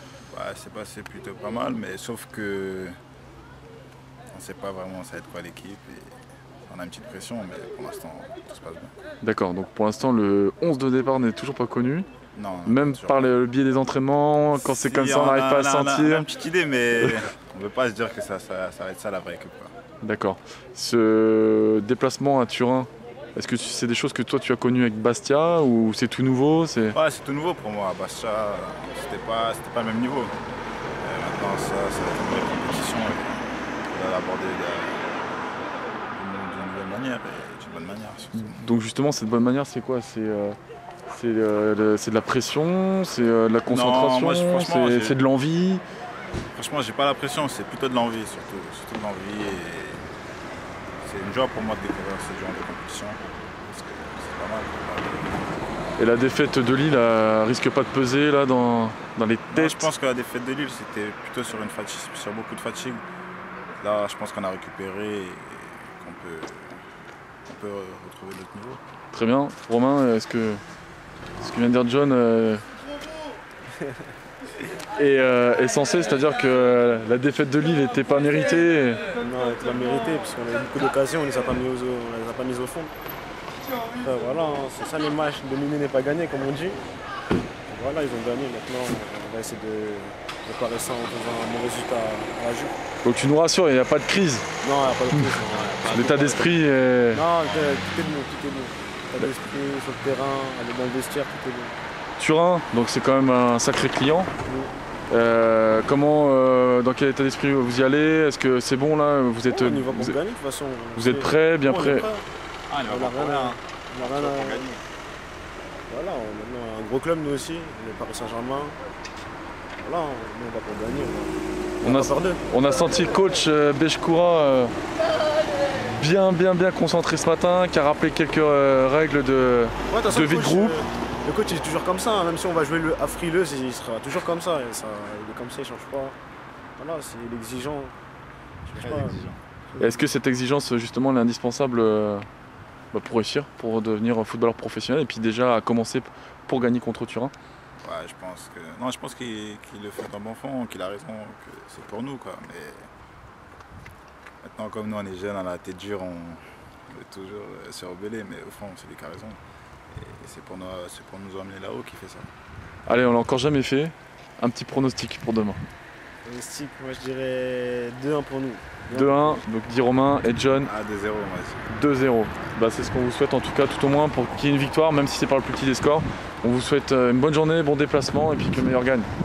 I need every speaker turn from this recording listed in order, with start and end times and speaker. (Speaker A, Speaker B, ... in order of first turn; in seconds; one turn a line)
Speaker A: 0.3-3.0
Speaker A: 4.3-6.1
Speaker A: 6.7-8.9
Speaker B: 9.2-12.1
Speaker A: 12.3-13.4
Speaker B: 12.7-16.3
Speaker A: 14.5-19.7
Speaker B: 20.0-27.0
Speaker A: 26.9-30.4
Speaker A: 31.0-38.6
Speaker B: 38.4-40.6
Speaker B: 41.1-45.8
Speaker A: 43.7-45.2
Speaker A: 46.5-50.0
Speaker A: 51.0-55.4
Speaker B: 56.0-59.9
Speaker A: 59.5-63.0
Speaker A: 63.8-66.8
Speaker A: 67.5-68.8
Speaker B: 69.1-70.6
Speaker B: 71.4-72.6
Speaker B: 75.0-79.0
Speaker C: 79.2-82.9
Speaker C: 84.0-86.8
Speaker C: 87.7-92.8
Speaker B: 93.0-94.5
Speaker C: 94.6-96.5
Speaker B: 95.9-97.2
Speaker C: 97.1-101.8
Speaker A: 97.4-97.9
Speaker B: 102.2-104.3
Speaker C: 104.4-104.7
Speaker B: 105.1-110.2
Speaker C: 109.5-112.2
Speaker B: 111.0-112.1
Speaker A: 112.7-114.8
Speaker C: 112.8-114.7
Speaker C: 115.9-118.8
Speaker C: 119.8-122.4
Speaker B: 121.8-124.7
Speaker B: 125.8-130.8
Speaker C: 129.9-136.2
Speaker C: 136.8-138.0
Speaker C: 138.7-139.2
Speaker A: 138.8-139.4
Speaker B: 139.8-142.3
Speaker B: 142.9-147.3
Speaker A: 147.8-152.9
Speaker A: 154.4-159.4
Speaker A: 159.9-162.3
Speaker B: 162.9-165.6
Speaker C: 166.2-169.4
Speaker B: 168.9-170.7
Speaker A: 170.6-171.7
Speaker B: 171.7-179.1